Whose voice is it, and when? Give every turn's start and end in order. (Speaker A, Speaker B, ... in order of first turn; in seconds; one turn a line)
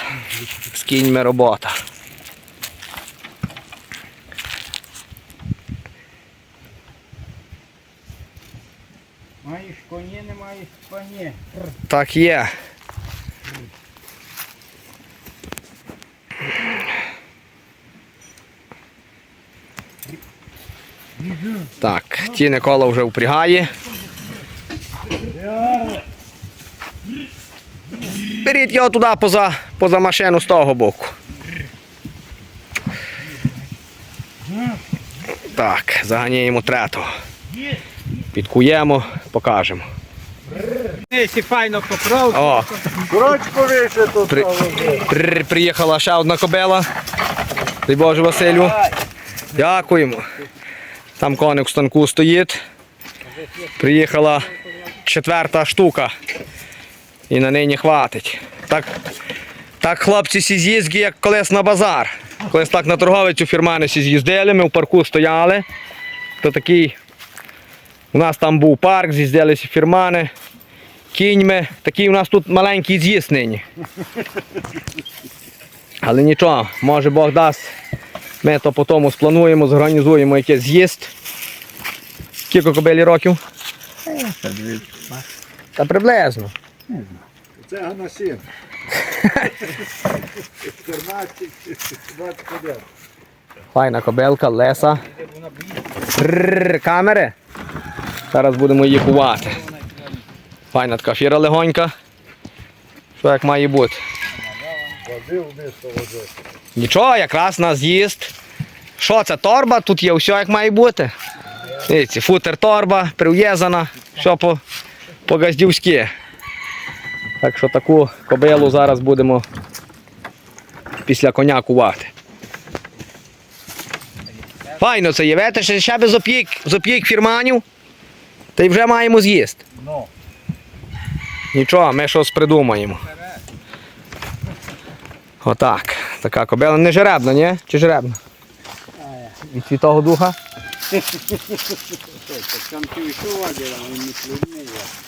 Speaker A: 0.7-1.8
Speaker B: 9.4-11.4
Speaker C: 9.4-10.6
Speaker A: 11.9-12.5
Speaker A: 21.8-23.7
Speaker A: 28.4-31.1
Speaker A: 35.4-37.1
Speaker A: 38.3-39.8
Speaker C: 40.9-42.1
Speaker B: 41.2-42.6
Speaker A: 42.3-42.9
Speaker C: 42.9-45.0
Speaker A: 44.3-46.9
Speaker A: 47.9-48.9
Speaker A: 49.5-50.2
Speaker A: 51.2-52.6
Speaker A: 53.8-56.1
Speaker A: 57.3-58.9
Speaker A: 59.8-65.7
Speaker A: 66.4-67.0
Speaker A: 68.1-70.3
Speaker A: 71.1-73.6
Speaker A: 76.0-77.7
Speaker A: 78.4-81.1
Speaker A: 82.5-83.4
Speaker C: 84.2-85.0
Speaker A: 85.8-86.5
Speaker C: 87.6-88.5
Speaker A: 89.0-89.6
Speaker C: 90.6-92.8
Speaker A: 93.7-95.0
Speaker B: 95.2-95.8
Speaker A: 96.0-97.3
Speaker A: 98.3-99.6
Speaker A: 100.7-101.9
Speaker A: 103.2-104.0
Speaker B: 104.4-105.0
Speaker C: 105.0-106.3
Speaker A: 106.8-108.3
Speaker A: 109.0-111.1
Speaker A: 111.7-114.6
Speaker A: 115.2-116.1
Speaker A: 117.4-119.4
Speaker A: 121.0-122.1
Speaker A: 124.8-127.6
Speaker A: 128.6-129.6
Speaker A: 131.5-133.0
Speaker A: 135.4-138.2
Speaker A: 139.4-140.3
Speaker C: 142.3-142.7
Speaker B: 142.7-144.8